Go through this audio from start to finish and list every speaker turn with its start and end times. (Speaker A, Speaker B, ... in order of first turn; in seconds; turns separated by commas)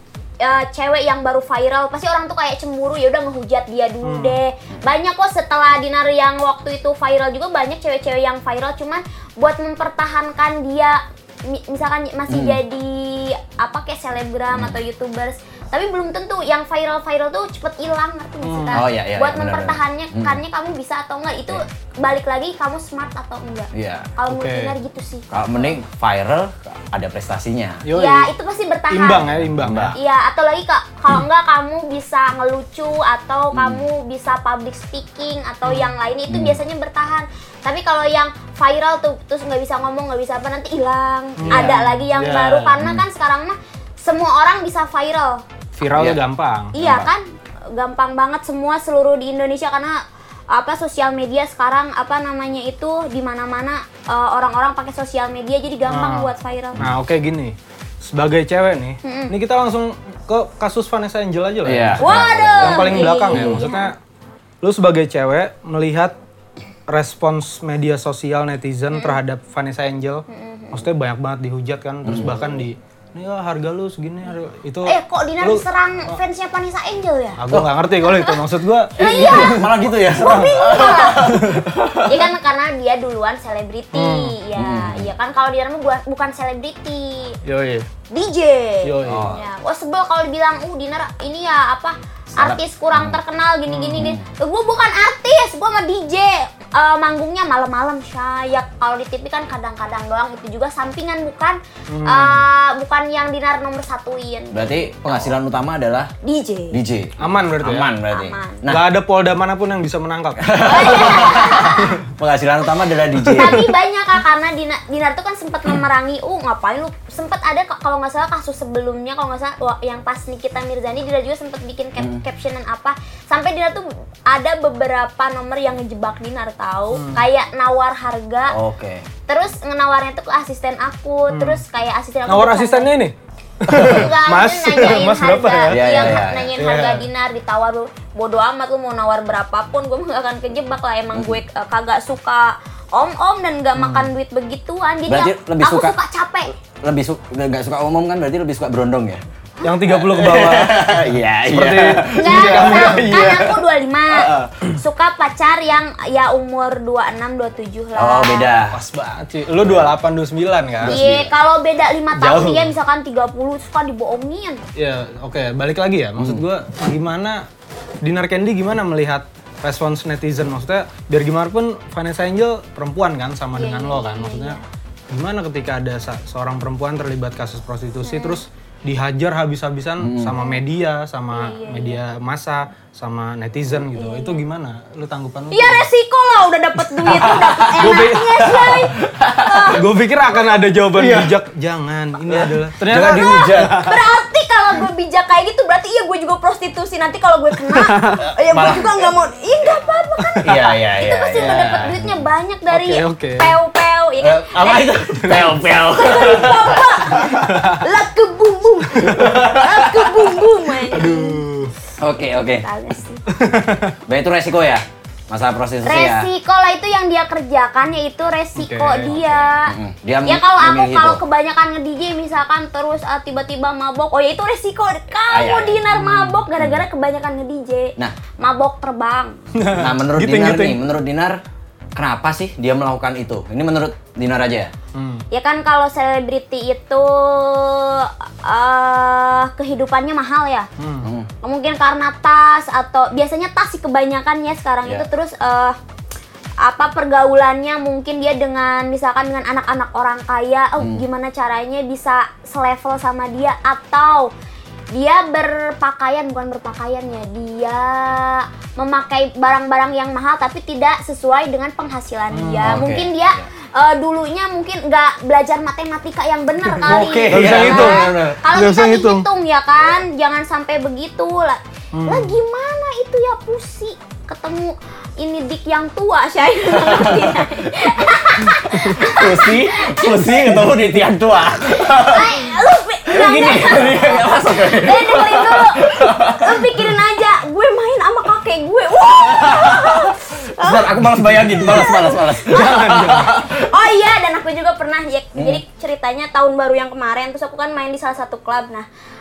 Speaker A: 0.4-25.8, Speaker B: 4.0-4.4, Speaker C: 12.3-12.6, Speaker C: 14.5-14.8, Speaker B: 18.4-18.9, Speaker C: 18.7-20.4, Speaker C: 23.7-24.1, Speaker B: 24.3-24.8, Speaker C: 25.3-27.9, Speaker B: 27.8-28.3, Speaker A: 27.9-29.3, Speaker B: 28.9-30.0, Speaker C: 29.3-30.0, Speaker A: 29.9-45.4, Speaker C: 33.5-33.8, Speaker B: 35.6-35.9, Speaker C: 36.3-36.6, Speaker B: 41.4-42.8, Speaker C: 41.5-41.9, Speaker C: 42.8-43.0, Speaker B: 45.7-46.7, Speaker C: 45.9-46.2, Speaker A: 46.7-50.0, Speaker C: 46.8-47.1, Speaker A: 50.5-56.8, Speaker B: 55.9-64.0, Speaker A: 59.0-59.3, Speaker C: 61.6-63.6, Speaker A: 62.0-63.9, Speaker B: 64.6-66.2, Speaker B: 66.9-76.2, Speaker A: 68.9-69.2, Speaker A: 70.3-70.9, Speaker C: 72.0-72.7, Speaker A: 74.8-77.4, Speaker B: 77.4-81.6, Speaker A: 78.0-78.4, Speaker A: 79.0-81.3, Speaker C: 79.0-82.2, Speaker A: 82.0-87.4, Speaker B: 83.9-84.4, Speaker C: 84.6-85.1, Speaker B: 87.5-87.9, Speaker A: 88.1-105.3, Speaker B: 88.8-89.4, Speaker C: 89.0-89.4, Speaker C: 92.3-93.2, Speaker B: 93.7-94.0, Speaker C: 94.0-94.2, Speaker B: 101.9-102.5, Speaker C: 104.5-106.1, Speaker A: 106.2-106.8, Speaker C: 106.7-108.8, Speaker B: 107.2-107.9, Speaker A: 108.1-108.7, Speaker B: 108.7-111.1, Speaker C: 110.4-113.7, Speaker A: 110.6-112.0, Speaker A: 113.3-128.6, Speaker C: 122.0-122.2, Speaker B: 126.9-127.2, Speaker C: 128.5-129.1, Speaker A: 129.3-132.9, Speaker B: 131.3-131.6, Speaker B: 132.3-137.1, Speaker C: 133.7-134.1, Speaker A: 133.8-146.5, Speaker C: 135.7-136.5, Speaker C: 141.1-141.4, Speaker B: 143.8-144.1, Speaker C: 145.1-146.0, Speaker C: 146.8-149.2, Speaker B: 149.6-153.2, Speaker C: 149.9-154.7, Speaker A: 152.2-158.5, Speaker C: 158.0-158.8, Speaker B: 158.7-161.0, Speaker C: 159.6-159.9, Speaker C: 160.8-161.3, Speaker A: 160.8-164.6, Speaker B: 162.1-162.8, Speaker B: 164.8-167.4, Speaker B: 168.0-174.6, Speaker A: 173.6-174.6, Speaker B: 175.1-185.9, Speaker A: 178.0-178.4, Speaker C: 180.0-180.4, Speaker A: 181.3-182.0, Speaker A: 183.9-184.4, Speaker A: 185.5-190.6, Speaker B: 186.8-188.9, Speaker C: 187.3-187.9, Speaker C: 189.1-189.8, Speaker B: 189.7-194.0, Speaker C: 191.0-191.3, Speaker C: 192.2-193.8, Speaker A: 192.9-205.0, Speaker B: 197.8-198.2, Speaker C: 198.5-199.0, Speaker B: 200.3-200.6, Speaker C: 200.4-202.2, Speaker B: 201.3-201.9, Speaker B: 202.7-203.6, Speaker C: 204.2-207.4, Speaker B: 205.3-205.5, Speaker A: 205.9-211.4, Speaker B: 207.5-207.8, Speaker B: 208.9-209.4, Speaker C: 209.2-210.1, Speaker B: 210.9-211.7, Speaker C: 212.0-212.7, Speaker A: 212.4-213.2, Speaker B: 213.3-214.0, Speaker C: 214.1-216.3, Speaker A: 215.8-219.7, Speaker B: 218.6-219.2, Speaker C: 219.1-221.2, Speaker A: 220.2-229.4, Speaker C: 225.3-225.9, Speaker B: 225.9-226.4, Speaker C: 226.6-226.8, Speaker B: 229.6-230.8, Speaker C: 229.8-231.4, Speaker C: 232.0-234.7, Speaker B: 234.9-235.2, Speaker A: 235.3-240.7, Speaker B: 240.8-241.1, Speaker C: 241.0-241.3, Speaker A: 241.4-245.8, Speaker A: 246.6-254.3, Speaker C: 250.8-251.1, Speaker A: 254.9-280.7, Speaker B: 262.3-262.8, Speaker C: 262.6-263.4, Speaker B: 266.6-269.2, Speaker C: 266.9-268.4, Speaker B: 272.0-272.4, Speaker C: 276.7-278.1, Speaker C: 278.8-282.6, Speaker A: 281.8-290.9, Speaker C: 283.1-286.8, Speaker C: 289.1-293.6, Speaker B: 291.1-291.8, Speaker A: 291.5-298.9, Speaker B: 292.5-293.4, Speaker C: 295.4-295.6